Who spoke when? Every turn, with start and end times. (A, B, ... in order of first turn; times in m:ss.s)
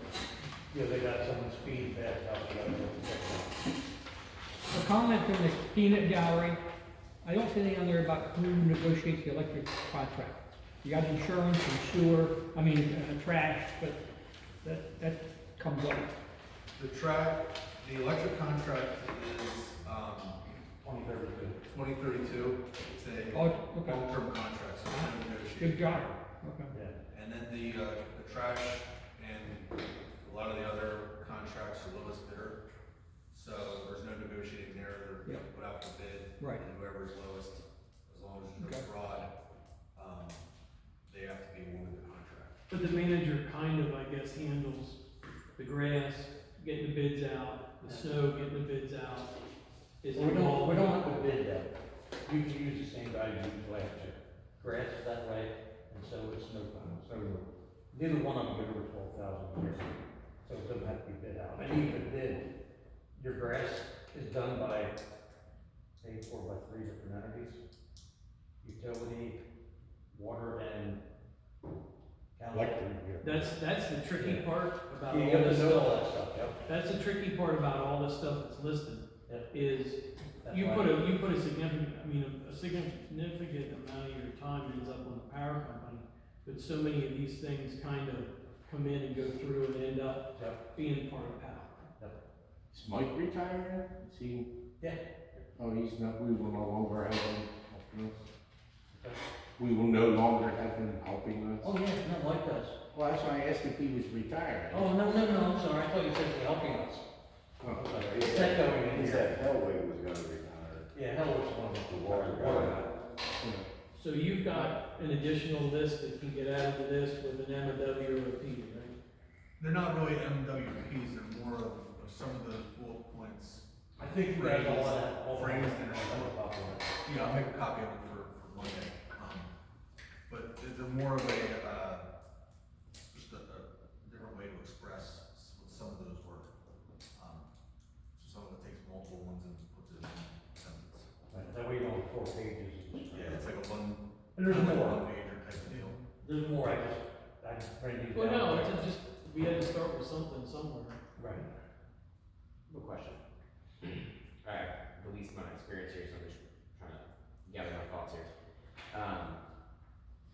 0:00.7-0:03.5 A
0:04.7-0:06.6 B
0:07.2-0:14.0 B
0:14.6-0:16.1 B
0:16.8-0:20.4 C
0:20.8-0:21.6 A
0:21.7-0:26.1 C
0:23.3-0:24.0 B
0:25.6-0:26.7 B
0:26.7-0:27.0 A
0:27.1-0:32.6 C
0:33.3-0:39.3 C
0:38.6-0:38.8 B
0:39.9-0:40.4 C
0:41.1-0:42.5 C
0:42.7-0:45.0 D
0:45.6-0:49.3 D
0:47.9-0:48.1 A
0:50.0-0:51.1 D
0:50.1-0:51.7 A
0:52.2-1:02.5 A
1:03.2-1:05.0 A
1:06.0-1:07.6 A
1:08.6-1:09.4 A
1:10.1-1:11.0 A
1:12.4-1:13.5 A
1:13.2-1:16.0 D
1:14.1-1:14.5 A
1:15.1-1:16.6 A
1:16.6-1:31.8 D
1:20.4-1:21.0 A
1:30.3-1:30.6 A
1:32.7-1:34.5 E
1:34.8-1:35.4 A
1:35.6-1:38.3 E
1:38.9-1:39.2 A
1:39.6-1:41.7 E
1:41.6-1:42.8 A
1:42.9-1:44.9 E
1:44.7-1:47.0 A
1:47.6-1:50.9 F
1:47.7-1:49.4 A
1:50.9-1:52.9 A
1:51.9-1:52.9 F
1:53.4-1:53.7 E
1:53.9-1:58.9 D
1:59.6-2:06.3 C
2:04.0-2:06.9 A
2:07.0-2:09.5 C
2:10.3-2:12.0 C
2:13.1-2:16.5 C
2:17.1-2:17.5 C
2:18.2-2:21.1 C
2:21.3-2:23.4 A
2:23.1-2:26.0 C
2:24.4-2:25.1 A
2:26.2-2:28.8 A
2:28.1-2:31.0 D
2:31.2-2:31.5 A
2:32.7-2:33.2 G
2:33.8-2:38.3 G
2:38.9-2:39.4 G